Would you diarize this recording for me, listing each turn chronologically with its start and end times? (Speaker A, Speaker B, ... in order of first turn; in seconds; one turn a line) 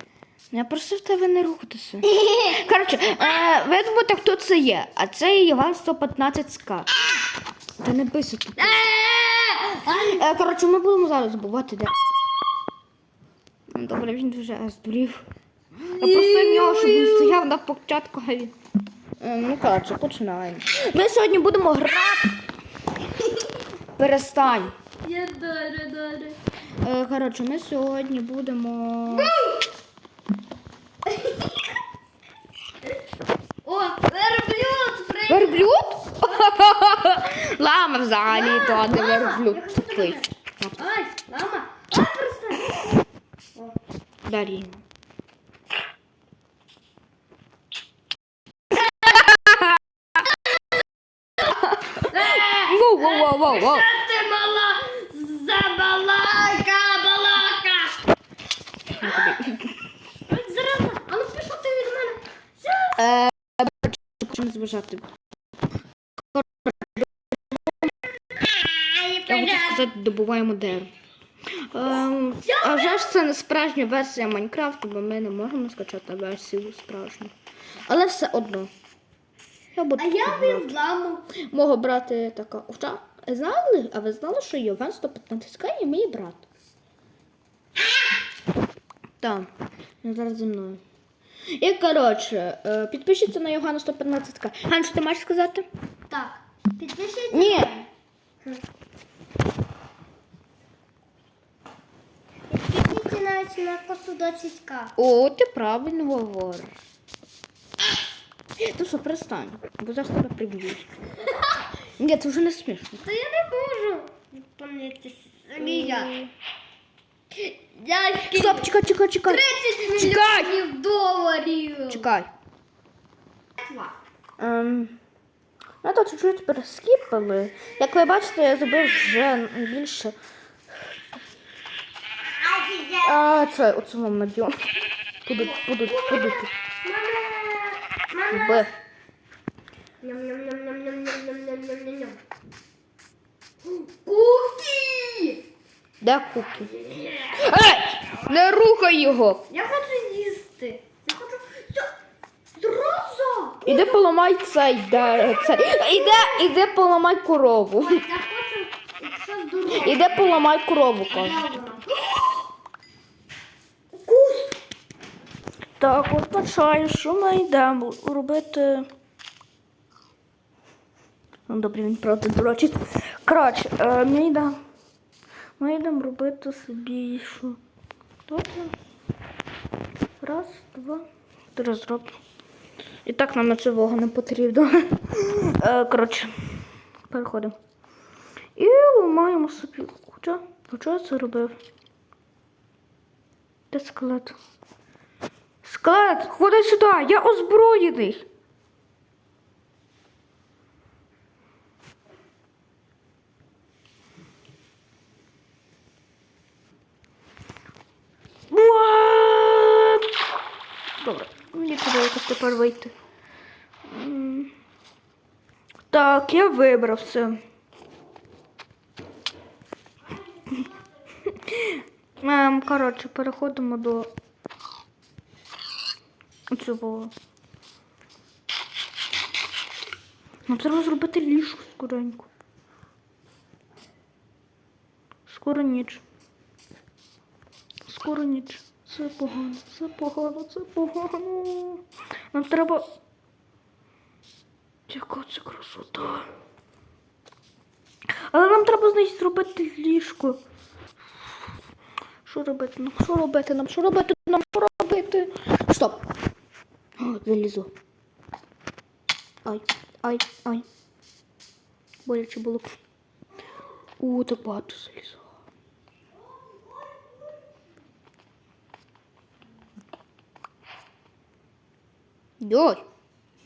Speaker A: 0.5-6.9
Speaker B: 2.0-2.6
Speaker A: 7.8-8.8
Speaker B: 8.6-10.3
Speaker A: 9.8-11.9
Speaker A: 13.7-15.2
Speaker B: 15.9-17.4
Speaker A: 16.0-18.5
Speaker A: 19.2-22.4
Speaker A: 24.0-24.8
Speaker B: 25.0-26.4
Speaker A: 26.8-29.3
Speaker B: 29.1-29.7
Speaker B: 31.1-31.6
Speaker B: 33.6-35.7
Speaker A: 35.3-40.7
Speaker B: 38.2-43.0
Speaker A: 44.2-44.8
Speaker A: 48.9-49.8
Speaker A: 51.4-53.9
Speaker B: 52.0-58.0
Speaker B: 58.9-59.3
Speaker A: 59.0-59.7
Speaker B: 60.3-63.1
Speaker A: 63.0-65.1
Speaker A: 66.4-66.9
Speaker B: 68.8-69.8
Speaker A: 69.2-70.9
Speaker A: 71.5-77.3
Speaker B: 72.4-73.2
Speaker A: 77.9-78.7
Speaker A: 79.7-80.8
Speaker B: 80.0-81.3
Speaker A: 81.3-86.5
Speaker A: 89.2-89.5
Speaker A: 90.0-90.8
Speaker A: 91.5-95.7
Speaker B: 96.1-97.9
Speaker A: 97.3-97.8
Speaker B: 102.5-105.0
Speaker A: 105.0-106.7
Speaker A: 108.6-110.9
Speaker A: 112.0-113.0
Speaker B: 113.0-116.2
Speaker A: 115.6-116.3
Speaker B: 117.3-122.1
Speaker A: 118.3-120.5
Speaker A: 121.9-122.3
Speaker B: 123.6-123.9
Speaker A: 124.4-125.0
Speaker A: 125.8-130.2
Speaker B: 132.6-133.0
Speaker A: 132.9-134.7
Speaker A: 135.2-136.5
Speaker B: 135.3-138.7
Speaker A: 138.3-138.7
Speaker B: 140.0-142.2
Speaker B: 143.6-145.4
Speaker A: 146.0-149.5
Speaker B: 146.8-147.4
Speaker B: 149.5-151.9
Speaker B: 152.6-153.9
Speaker A: 153.7-158.0
Speaker B: 154.9-156.4
Speaker B: 157.8-160.5
Speaker A: 159.7-161.5
Speaker B: 161.1-162.3
Speaker B: 163.9-164.6
Speaker A: 165.8-168.9
Speaker A: 171.5-174.6
Speaker A: 175.6-177.6
Speaker A: 178.3-178.7
Speaker A: 180.2-182.2
Speaker A: 183.1-187.6
Speaker A: 188.6-191.6
Speaker A: 193.7-194.4
Speaker A: 195.6-198.2
Speaker A: 208.5-210.1
Speaker A: 211.0-212.9
Speaker A: 213.9-214.5
Speaker A: 215.9-217.4
Speaker A: 221.3-224.1
Speaker A: 226.5-227.1
Speaker A: 230.5-232.3
Speaker A: 235.3-236.0
Speaker A: 237.9-242.9
Speaker A: 244.9-246.3
Speaker A: 248.3-250.4
Speaker A: 252.2-256.0
Speaker A: 257.0-257.7
Speaker A: 259.4-260.6
Speaker A: 262.1-262.8
Speaker A: 264.0-265.2
Speaker A: 272.4-272.8